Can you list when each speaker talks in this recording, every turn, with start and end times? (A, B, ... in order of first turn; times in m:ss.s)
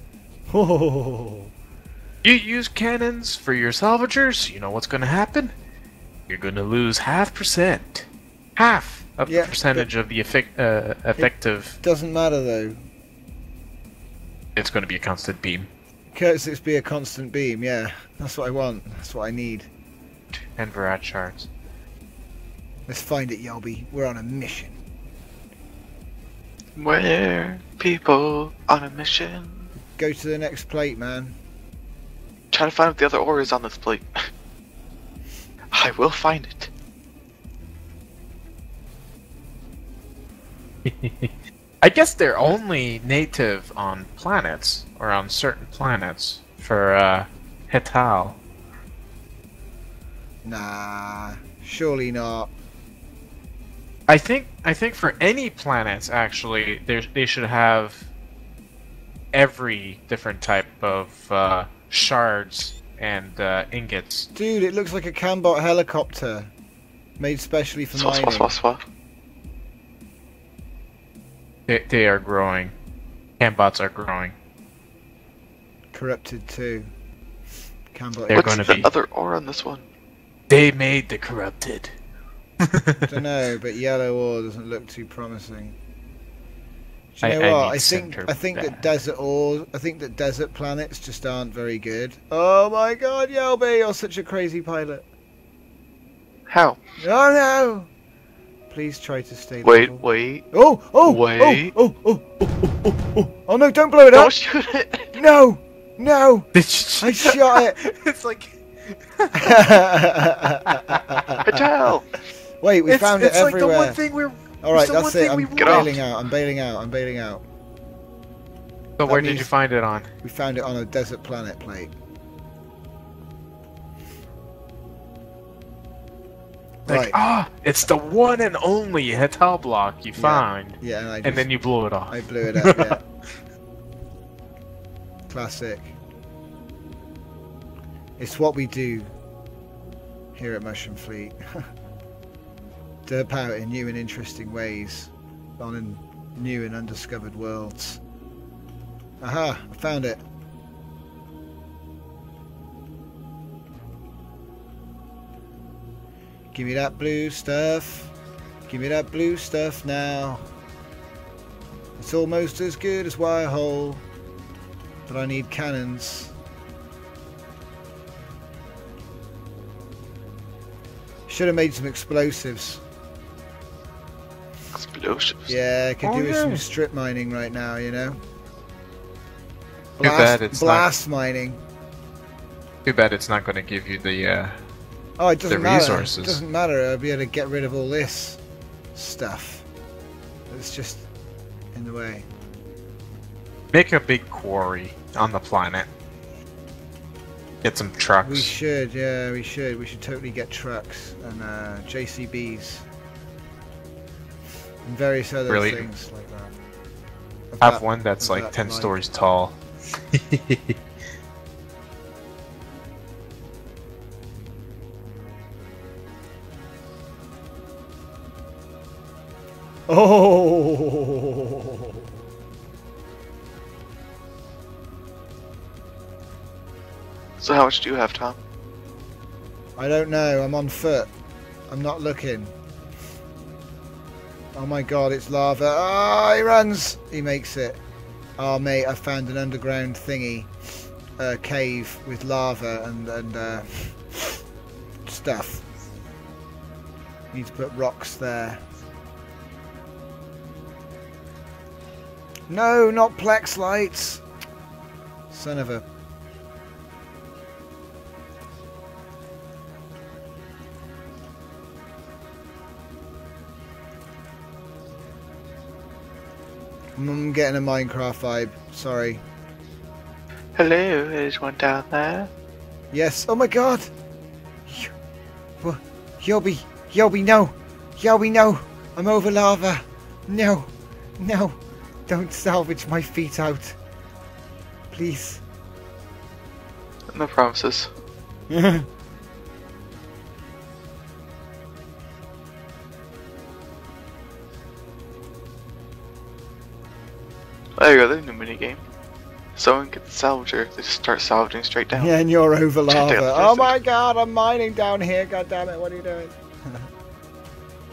0:00.5-0:01.5 A
0:02.2-0:05.5 B
0:06.3-0:11.8 B
0:09.3-0:09.9 A
0:11.2-0:12.8 A
0:14.6-0:15.7 B
0:16.1-0:19.7 A
0:20.6-0:21.5 B
0:22.9-0:24.8 A
0:26.8-0:29.7 C
0:30.0-0:31.4 A
0:32.5-0:34.3 C
0:35.7-0:36.7 C
0:40.8-0:48.4 B
0:50.4-0:52.5 A
0:54.1-0:58.1 B
0:59.3-1:04.3 B
1:04.4-1:06.5 A
1:07.2-1:08.5 A
1:07.9-1:08.8 C
1:11.7-1:12.7 B
1:13.4-1:14.3 B
1:15.9-1:16.9 A
1:17.9-1:18.9 A
1:18.3-1:18.9 B
1:18.3-1:19.8 C
1:20.5-1:21.9 B
1:22.6-1:23.1 B
1:23.1-1:25.8 A
1:27.2-1:35.1 A
1:27.2-1:28.9 B
1:36.5-1:36.8 C
1:37.0-1:37.9 A
1:38.7-1:44.3 A
1:39.6-1:40.5 C
1:41.0-1:41.7 C
1:44.1-1:45.1 C
1:45.1-1:47.8 A
1:46.5-1:49.8 B
1:49.4-1:51.6 A
1:50.7-1:51.4 B
1:51.4-1:52.1 C
1:52.6-1:54.0 A
1:52.9-1:56.0 B
1:54.6-1:57.4 A
1:55.6-1:55.9 C
1:59.0-2:00.1 B
1:59.1-1:59.5 A
2:00.2-2:01.9 A
2:06.9-2:07.2 A
2:06.9-2:13.0 B
2:10.2-2:11.5 A
2:12.1-2:13.0 A
2:15.3-2:16.0 A
2:18.2-2:19.1 A
2:20.4-2:21.4 A
2:23.1-2:28.0 A
2:29.2-2:30.2 A
2:36.5-2:38.1 A
2:38.7-2:40.5 A
2:42.0-2:44.0 A
2:45.1-2:46.3 A
2:51.3-2:52.8 A
2:54.7-2:55.6 C
2:55.5-2:58.2 A
2:56.0-2:56.6 B
3:00.0-3:01.6 A
3:00.0-3:00.9 B
3:02.8-3:04.6 B
3:05.2-3:08.4 A
3:05.5-3:06.4 B
3:09.0-3:09.7 A
3:10.5-3:11.1 A
3:11.8-3:12.3 A
3:13.7-3:15.9 B
3:17.6-3:18.5 B
3:18.2-3:22.9 A
3:24.8-3:26.6 A
3:25.5-3:25.9 B
3:27.5-3:29.0 A
3:27.6-3:29.6 B
3:30.1-3:30.8 B
3:39.9-3:42.1 A
3:47.4-3:48.4 C
3:49.8-3:51.1 A
3:51.7-3:52.5 A
3:54.5-3:57.8 A
3:58.4-4:00.5 A
4:01.2-4:04.4 A
4:05.1-4:05.7 A
4:07.3-4:08.6 A
4:12.5-4:14.2 A
4:15.3-4:15.8 A
4:27.0-4:29.2 A
4:30.6-4:32.3 C
4:32.9-4:33.9 A
4:34.7-4:34.9 A
4:35.6-4:43.8 A
4:44.9-4:45.4 A
4:47.1-4:47.9 C
4:48.5-4:48.9 A
4:57.8-4:58.8 C
4:59.6-5:02.1 C
5:02.0-5:06.8 A
5:02.9-5:03.8 C